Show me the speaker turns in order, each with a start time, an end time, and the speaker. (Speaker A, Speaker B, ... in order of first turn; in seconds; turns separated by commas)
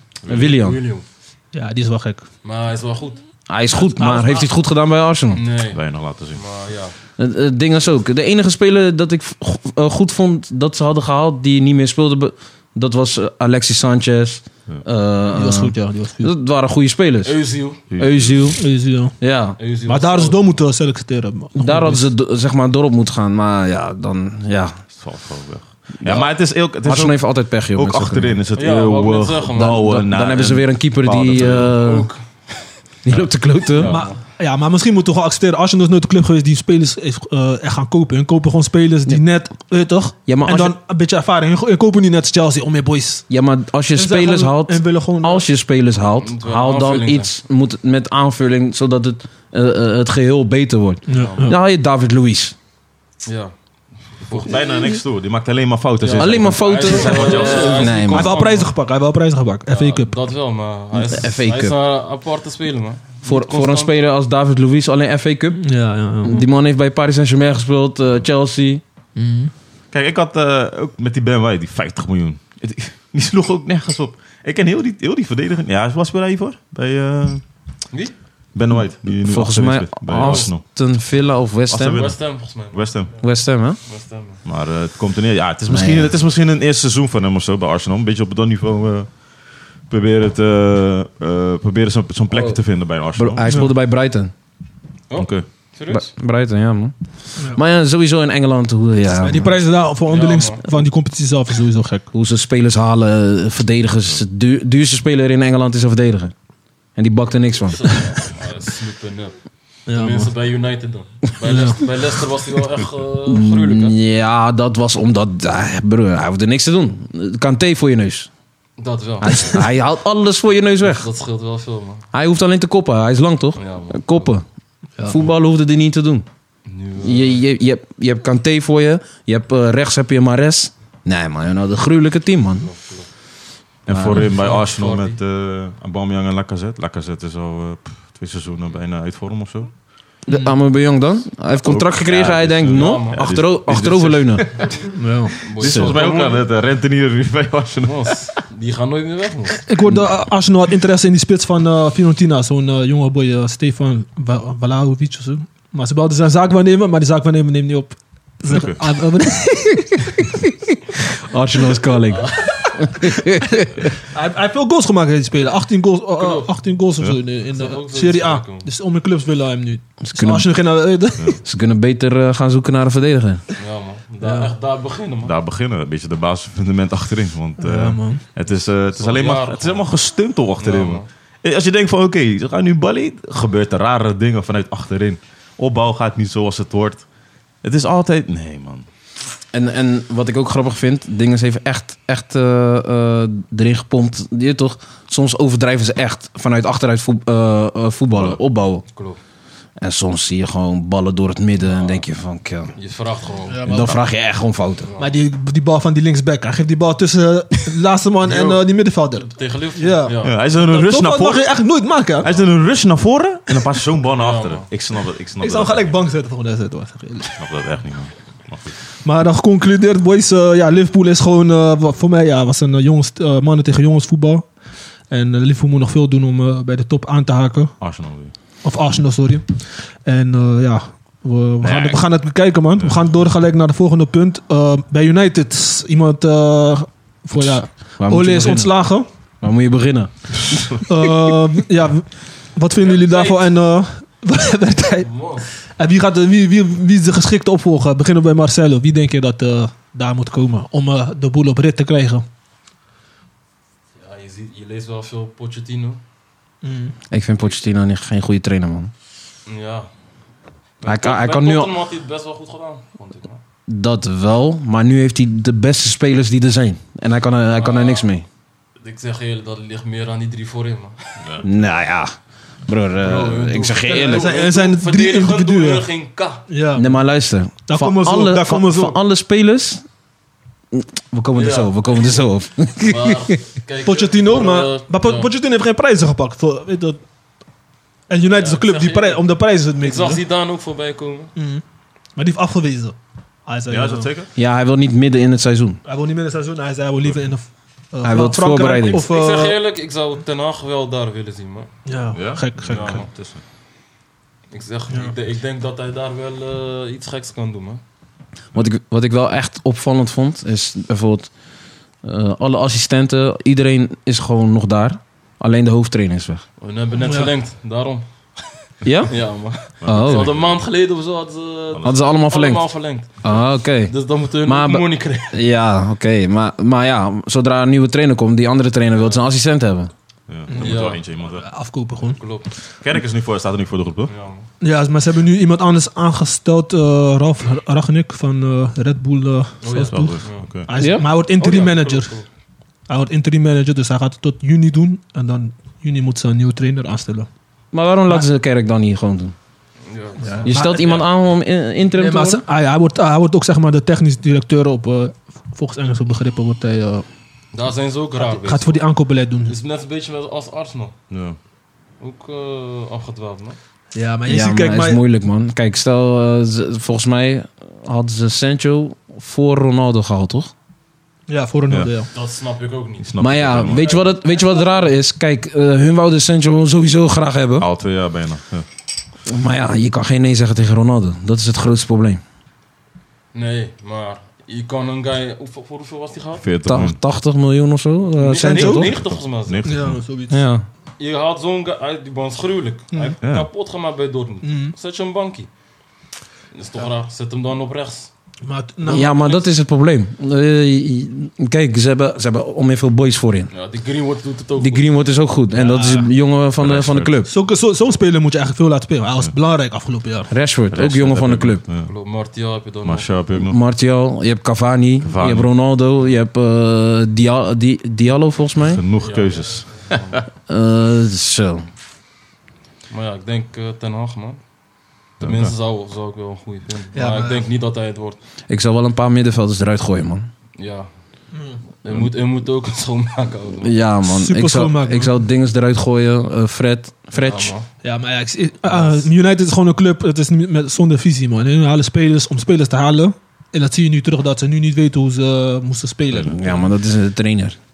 Speaker A: 0.2-1.0, Speaker B: 0.3-0.8, Speaker C: 1.5-2.2, Speaker A: 2.4-3.2, Speaker B: 3.5-5.4, Speaker C: 3.9-4.5, Speaker A: 5.3-6.9, Speaker D: 5.7-6.4, Speaker B: 7.2-17.4, Speaker C: 15.3-16.3, Speaker A: 17.2-17.8, Speaker D: 17.9-18.5, Speaker B: 17.9-18.6, Speaker C: 18.6-19.1, Speaker B: 19.2-19.6, Speaker A: 19.6-20.4, Speaker C: 19.9-22.1, Speaker B: 21.6-24.8, Speaker D: 24.9-31.8, Speaker B: 26.0-26.3, Speaker B: 26.8-28.4, Speaker A: 28.5-29.9, Speaker B: 29.5-32.1, Speaker A: 31.7-32.2, Speaker B: 33.0-34.0, Speaker D: 33.1-33.9, Speaker A: 33.7-34.2, Speaker C: 33.8-43.3, Speaker B: 40.3-40.8, Speaker B: 43.3-52.5, Speaker C: 43.9-45.5, Speaker A: 46.2-47.3, Speaker C: 51.1-51.6, Speaker A: 51.1-51.5, Speaker A: 53.2-54.6, Speaker D: 54.3-56.9, Speaker A: 56.0-58.7, Speaker B: 56.1-58.4, Speaker C: 56.8-60.1, Speaker A: 59.7-63.9, Speaker B: 61.0-61.8, Speaker B: 63.2-68.8, Speaker C: 65.6-66.4, Speaker C: 69.2-69.5, Speaker D: 69.9-77.4, Speaker A: 77.9-78.1, Speaker D: 78.5-80.6, Speaker B: 79.2-82.1, Speaker A: 80.1-80.5, Speaker D: 81.7-83.1, Speaker A: 81.9-82.9, Speaker B: 83.2-83.8, Speaker A: 83.8-84.4, Speaker D: 84.4-93.5, Speaker B: 85.7-86.1, Speaker B: 92.3-92.6, Speaker B: 93.1-94.3, Speaker C: 93.4-93.7, Speaker A: 95.1-96.1, Speaker D: 95.2-95.5, Speaker B: 95.9-99.5, Speaker C: 99.2-102.1, Speaker A: 100.1-100.8, Speaker B: 102.1-106.3, Speaker B: 107.0-108.0, Speaker A: 107.7-114.0, Speaker C: 109.9-110.3, Speaker C: 111.4-111.8, Speaker B: 113.2-118.3, Speaker A: 118.8-119.6, Speaker B: 119.2-121.1, Speaker A: 120.8-122.0, Speaker B: 122.1-124.4, Speaker A: 123.5-124.2, Speaker B: 125.0-126.2, Speaker A: 126.7-127.4, Speaker B: 127.0-132.7, Speaker A: 132.6-133.1, Speaker D: 133.8-139.7, Speaker B: 133.9-134.3, Speaker A: 134.1-135.2, Speaker B: 140.2-144.8, Speaker C: 140.3-140.5, Speaker D: 141.6-144.9, Speaker A: 142.6-143.3, Speaker C: 144.9-145.3, Speaker A: 145.4-146.4, Speaker D: 145.5-148.3, Speaker B: 145.6-146.0, Speaker A: 147.8-149.7, Speaker C: 149.7-160.3, Speaker D: 158.5-158.8, Speaker B: 160.9-163.9, Speaker A: 162.1-162.7, Speaker C: 164.0-171.4, Speaker A: 166.1-166.5, Speaker A: 167.5-168.7, Speaker B: 170.0-170.5, Speaker B: 171.4-173.4, Speaker A: 173.6-175.3, Speaker C: 174.2-174.5, Speaker D: 175.2-187.0, Speaker C: 177.6-178.2, Speaker A: 178.9-179.9, Speaker A: 180.6-181.1, Speaker D: 187.6-188.8, Speaker B: 189.5-198.8, Speaker D: 198.1-198.4, Speaker B: 199.8-202.7, Speaker A: 202.8-203.9, Speaker C: 203.5-204.0, Speaker B: 203.7-204.9, Speaker A: 204.8-205.1, Speaker C: 205.0-212.3, Speaker A: 208.2-208.6, Speaker A: 209.2-210.3, Speaker D: 210.2-211.5, Speaker D: 212.2-215.9, Speaker A: 214.2-214.7, Speaker C: 215.4-217.3, Speaker D: 217.3-218.8, Speaker C: 219.0-224.5, Speaker C: 225.1-227.8, Speaker D: 227.8-228.3, Speaker C: 228.6-239.1, Speaker D: 231.6-232.0, Speaker D: 232.8-233.1, Speaker B: 238.0-238.8, Speaker B: 239.4-240.8, Speaker C: 240.8-245.1, Speaker A: 242.8-243.5, Speaker A: 245.0-245.5, Speaker C: 245.6-252.2, Speaker A: 254.0-256.0, Speaker C: 256.6-256.9, Speaker B: 257.1-258.9, Speaker A: 259.4-259.9, Speaker A: 260.8-263.4, Speaker B: 260.8-261.7, Speaker B: 263.7-268.2, Speaker A: 267.6-268.1, Speaker A: 268.8-271.2, Speaker B: 271.4-272.1, Speaker B: 272.7-274.3, Speaker A: 273.0-276.4, Speaker C: 273.9-275.9, Speaker C: 276.5-276.9, Speaker B: 276.7-279.8, Speaker C: 277.7-279.0, Speaker B: 280.7-283.3, Speaker A: 281.3-282.2, Speaker A: 282.8-285.3, Speaker C: 283.8-287.0, Speaker C: 288.1-290.2, Speaker A: 288.3-289.2, Speaker A: 289.8-291.3, Speaker C: 291.4-291.6, Speaker C: 292.1-294.1, Speaker D: 293.7-294.3, Speaker B: 294.3-295.8, Speaker C: 295.8-299.6, Speaker B: 298.0-299.0, Speaker A: 298.8-301.7, Speaker C: 301.9-303.0, Speaker D: 302.1-303.4, Speaker A: 302.6-303.1, Speaker A: 304.5-307.8, Speaker B: 308.5-311.3, Speaker B: 312.0-316.4, Speaker A: 316.6-318.5, Speaker C: 317.0-317.3, Speaker B: 318.8-319.2, Speaker A: 319.0-325.4, Speaker D: 319.8-320.6, Speaker B: 319.8-320.3, Speaker B: 321.8-322.7, Speaker B: 323.2-329.9, Speaker D: 330.3-331.4, Speaker C: 330.5-332.2, Speaker A: 330.5-331.1, Speaker A: 332.2-332.5, Speaker D: 332.8-334.1, Speaker A: 334.1-334.5, Speaker C: 334.6-342.1, Speaker A: 339.6-340.5, Speaker D: 339.9-340.7, Speaker B: 340.8-341.1, Speaker A: 341.4-342.2, Speaker C: 342.9-347.3, Speaker B: 347.7-349.3, Speaker A: 349.9-351.1, Speaker C: 350.3-350.9, Speaker B: 350.4-352.4, Speaker C: 352.0-357.0, Speaker A: 357.5-358.9, Speaker C: 358.2-359.5, Speaker A: 359.4-360.9, Speaker D: 361.1-361.4, Speaker A: 362.0-363.6, Speaker C: 363.9-365.0, Speaker B: 364.3-370.5, Speaker C: 371.3-372.1, Speaker A: 372.1-374.8, Speaker D: 373.0-373.9, Speaker B: 373.2-377.7, Speaker D: 377.6-378.6, Speaker B: 379.2-382.2, Speaker A: 383.3-386.5, Speaker D: 386.4-387.0, Speaker B: 386.6-389.0, Speaker A: 388.2-389.6, Speaker C: 388.4-388.9, Speaker D: 388.8-390.0, Speaker C: 389.6-390.4, Speaker B: 390.3-390.6, Speaker A: 391.0-395.5, Speaker D: 393.2-393.5, Speaker C: 394.4-394.7, Speaker A: 396.5-398.1, Speaker C: 398.4-399.1, Speaker A: 398.8-399.4, Speaker B: 398.9-403.5, Speaker A: 403.5-404.9, Speaker B: 404.6-407.3, Speaker C: 405.5-406.1, Speaker D: 406.6-407.1, Speaker C: 407.2-410.3, Speaker B: 410.3-411.6, Speaker D: 410.7-411.9, Speaker A: 411.9-413.2, Speaker D: 412.8-413.6, Speaker B: 413.3-418.8, Speaker D: 415.0-415.5, Speaker D: 418.6-419.8, Speaker A: 419.0-420.2, Speaker B: 420.5-421.6, Speaker A: 422.9-424.4, Speaker D: 425.2-425.6, Speaker A: 425.2-428.2, Speaker C: 426.9-427.4, Speaker B: 428.5-430.3, Speaker A: 430.6-430.9, Speaker A: 431.8-433.7, Speaker B: 433.6-437.5, Speaker C: 434.0-435.1, Speaker A: 437.1-437.7, Speaker C: 437.8-446.6, Speaker B: 446.1-447.6